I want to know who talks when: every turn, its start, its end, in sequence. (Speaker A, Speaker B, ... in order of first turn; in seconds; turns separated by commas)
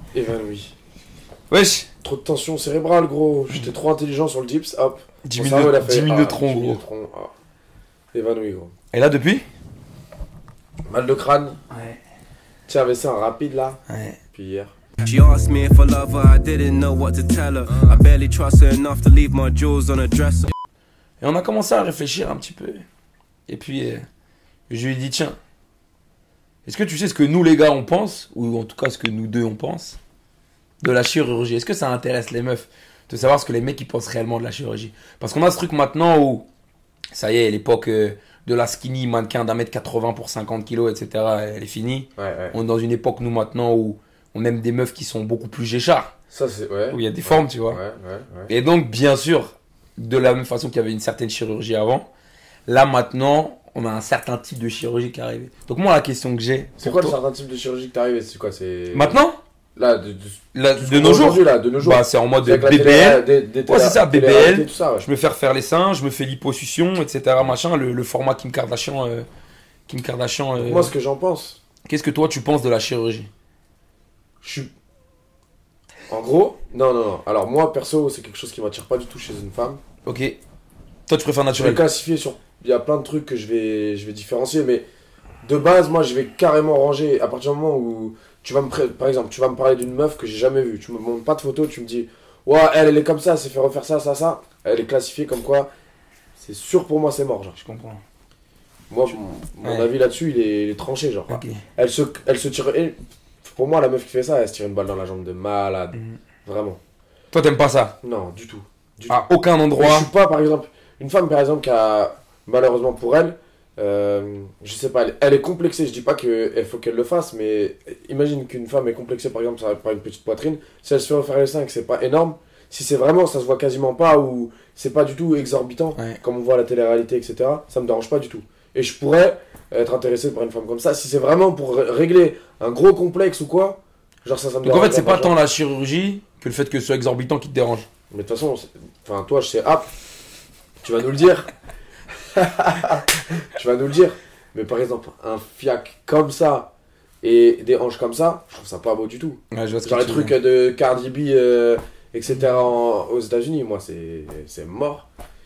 Speaker A: 0.1-0.7, Speaker B: 1.5-1.9, Speaker A: 2.0-7.3, Speaker B: 5.2-6.8, Speaker A: 8.1-8.7, Speaker B: 8.9-9.4, Speaker A: 10.9-11.6, Speaker B: 11.7-12.0, Speaker A: 12.7-13.8, Speaker B: 13.9-14.2, Speaker A: 14.3-14.7, Speaker C: 15.0-20.5, Speaker B: 21.2-22.8, Speaker B: 23.5-24.0, Speaker B: 24.7-25.4, Speaker B: 26.6-30.0, Speaker B: 30.8-36.5, Speaker B: 37.1-46.1, Speaker A: 42.2-42.5, Speaker A: 46.3-48.5, Speaker B: 46.9-47.8, Speaker B: 48.5-52.1, Speaker B: 52.6-57.2, Speaker A: 56.8-59.2, Speaker B: 58.9-59.4, Speaker A: 59.8-65.1, Speaker B: 60.5-69.3, Speaker B: 69.9-70.9, Speaker A: 70.5-71.6, Speaker B: 71.8-73.3, Speaker A: 74.4-74.7, Speaker A: 76.1-79.8, Speaker B: 80.0-80.4, Speaker B: 81.1-81.8, Speaker A: 81.5-84.8, Speaker A: 85.4-95.7, Speaker A: 96.4-97.6, Speaker B: 97.6-98.0, Speaker A: 98.9-106.8, Speaker B: 99.6-99.9, Speaker B: 101.3-101.6, Speaker B: 107.3-108.0, Speaker A: 108.0-135.3, Speaker B: 109.1-110.1, Speaker B: 134.6-137.9, Speaker A: 138.1-139.9, Speaker A: 140.8-141.5, Speaker A: 142.3-146.7, Speaker A: 147.2-155.1, Speaker B: 149.5-150.4